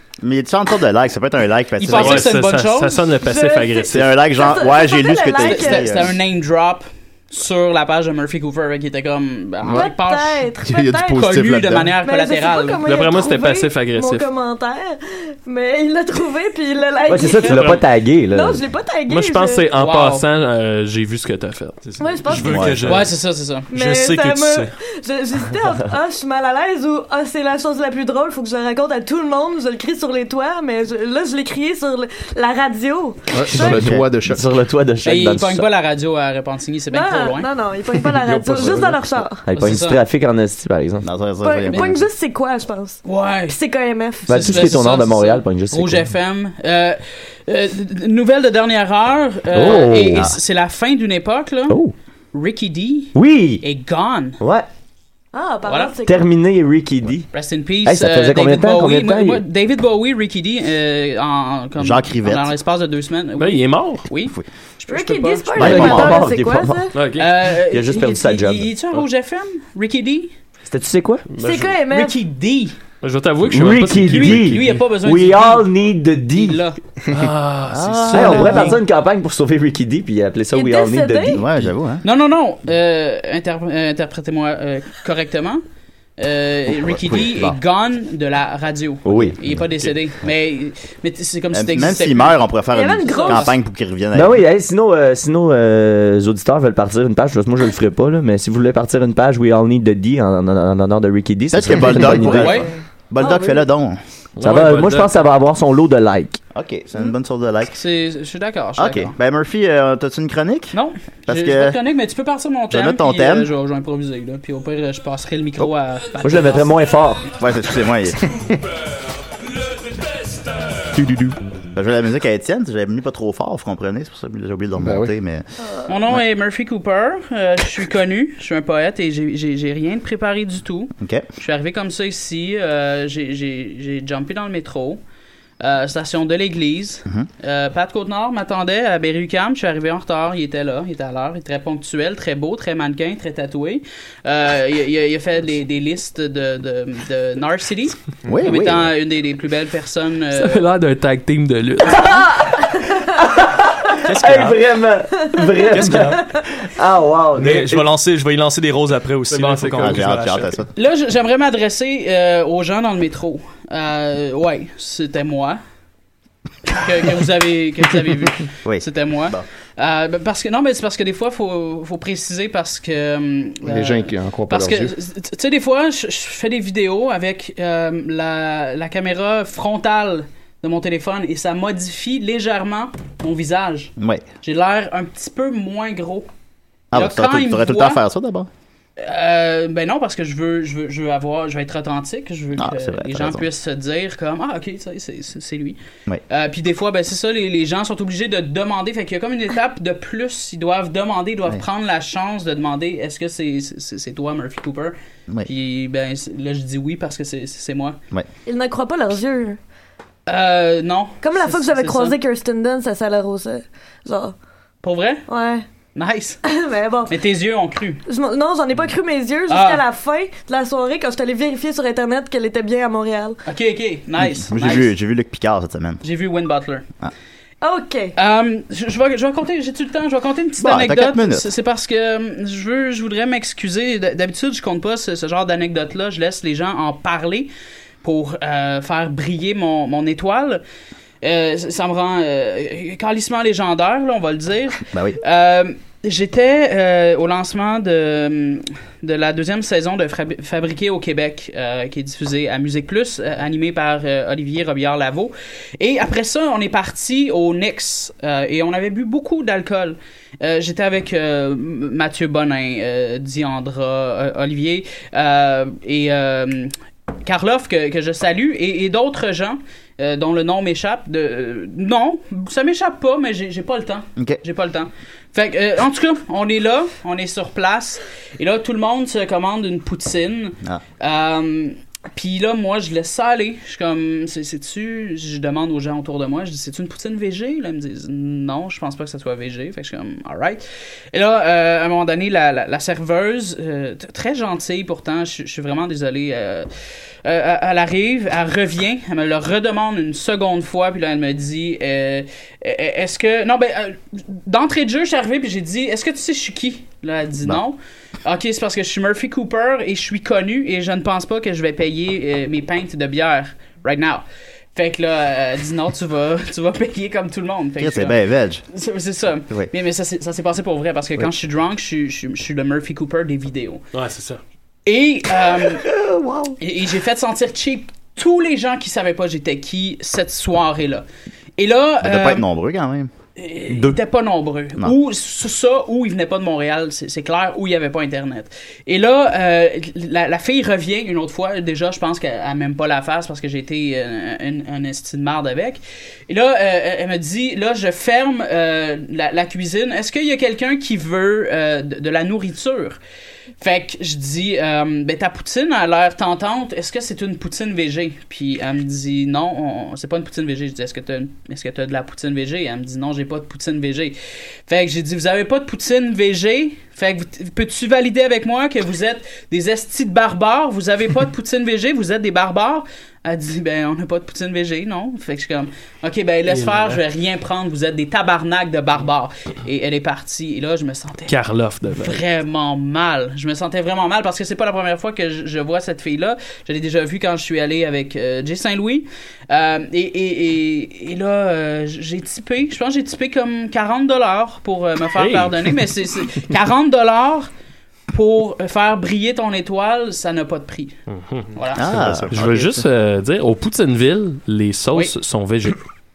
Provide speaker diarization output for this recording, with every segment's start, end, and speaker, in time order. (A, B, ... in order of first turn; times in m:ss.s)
0:00.2-0:02.3 A
0:01.8-0:03.2 B
0:01.9-0:04.2 C
0:03.2-0:06.0 D
0:03.9-0:06.1 A
0:05.4-0:10.5 B
0:09.7-0:11.3 D
0:10.6-0:11.9 E
0:11.2-0:12.8 B
0:12.0-0:19.7 D
0:12.8-0:14.2 C
0:17.1-0:18.6 F
0:19.1-0:21.8 C
0:19.7-0:20.3 B
0:21.8-0:23.2 G
0:22.0-0:22.8 D
0:22.4-0:22.9 A
0:22.8-0:23.7 B
0:23.7-0:33.9 D
0:23.7-0:24.7 G
0:33.3-0:34.5 E
0:33.6-0:34.0 A
0:34.2-0:35.7 F
0:35.0-0:37.5 B
0:36.9-0:39.5 D
0:38.2-0:39.2 E
0:39.4-0:41.1 F
0:39.5-0:40.0 B
0:41.0-0:42.0 A
0:41.4-0:44.7 D
0:43.0-0:43.6 B
0:44.3-0:46.1 F
0:44.3-0:51.8 B
0:49.5-0:50.3 F
0:51.7-0:51.9 F
0:52.3-0:54.4 B
0:53.1-0:53.6 F
0:54.4-0:54.7 F
0:55.3-0:56.2 D
0:55.6-0:55.9 B
0:56.0-0:57.3 F
0:57.3-1:06.2 B
0:57.8-0:59.4 F
1:01.8-1:02.5 A
1:03.4-1:04.0 C
1:04.9-1:06.9 D
1:05.5-1:06.2 A
1:05.6-1:06.9 F
1:06.9-1:07.3 C
1:07.1-1:10.3 B
1:07.7-1:08.7 F
1:10.7-1:11.2 F
1:11.3-1:11.7 C
1:11.4-1:12.2 D
1:11.7-1:12.8 B
1:13.0-1:14.8 C
1:13.5-1:16.6 F
1:14.1-1:16.8 B
1:17.1-1:18.7 C
1:17.7-1:18.7 A
1:18.1-1:21.7 F
1:18.2-1:18.7 D
1:18.5-1:18.8 B
1:20.5-1:21.4 D
1:21.4-1:22.0 A
1:22.0-1:25.6 B
1:26.2-1:32.5 B
1:26.7-1:27.6 A
1:29.0-1:29.4 F
1:29.1-1:29.6 A
1:31.5-1:34.4 A
1:32.7-1:33.5 D
1:33.0-1:33.6 B
1:34.1-1:42.5 F
1:41.5-1:44.0 A
1:42.2-1:42.7 B
1:42.4-1:43.6 D
1:44.4-1:45.2 C
1:44.4-1:46.4 F
1:46.5-1:47.8 A
1:47.7-1:49.1 B
1:48.8-1:51.8 A
1:50.7-1:56.9 B
1:52.7-1:53.5 A
1:56.2-1:57.3 F
1:57.4-1:58.4 A
2:00.9-2:01.4 E
2:01.7-2:05.5 A
2:04.8-2:05.1 E
2:05.9-2:15.0 B
2:11.0-2:11.2 A
2:15.6-2:30.7 B
2:28.3-2:28.9 A
2:30.3-2:32.2 C
2:31.9-2:32.4 F
2:32.0-2:33.2 D
2:33.2-2:37.9 F
2:34.0-2:34.6 G
2:35.2-2:36.4 D
2:35.6-2:36.2 G
2:37.3-2:40.5 G
2:39.3-2:40.4 C
2:39.8-2:40.7 A
2:40.8-2:45.6 B
2:46.7-3:06.3 B
2:48.6-2:49.4 A
2:53.6-2:54.9 E
3:04.0-3:04.2 A
3:06.9-3:08.0 B
3:06.9-3:08.5 A
3:09.0-3:15.8 B
3:12.6-3:13.4 A
3:16.3-3:28.0 B
3:28.4-3:29.6 D
3:30.3-3:32.2 B
3:31.2-3:34.3 D
3:34.8-3:35.2 B
3:35.3-3:35.6 D
3:35.9-3:36.4 B
3:36.4-3:37.1 D
3:37.1-3:38.0 B
3:38.1-3:43.4 D
3:39.5-3:39.8 B
3:43.4-3:44.9 B
3:44.2-3:46.0 A
3:46.0-3:46.8 B
3:47.6-3:48.1 D
3:48.2-3:57.5 B
3:50.6-3:51.5 A
3:58.0-4:00.6 B
4:01.2-4:56.7 B
4:04.9-4:05.2 A
4:57.2-5:14.2 B
5:14.7-5:18.2 B
5:17.8-5:18.6 A
5:18.7-5:23.8 B
5:23.9-5:24.4 C
5:24.8-5:25.9 B
5:25.8-5:26.5 F
5:26.6-5:31.0 B
5:31.6-5:32.4 B
5:32.0-5:33.1 A
5:33.4-5:53.0 B
5:53.6-6:21.4 B
6:16.5-6:17.0 C
6:21.3-6:22.2 C
6:21.9-6:37.5 B
6:35.2-6:35.8 C
6:38.1-6:41.0 B
6:41.1-6:45.8 C
6:41.5-6:42.0 B
6:41.8-6:42.8 A
6:42.0-6:42.3 E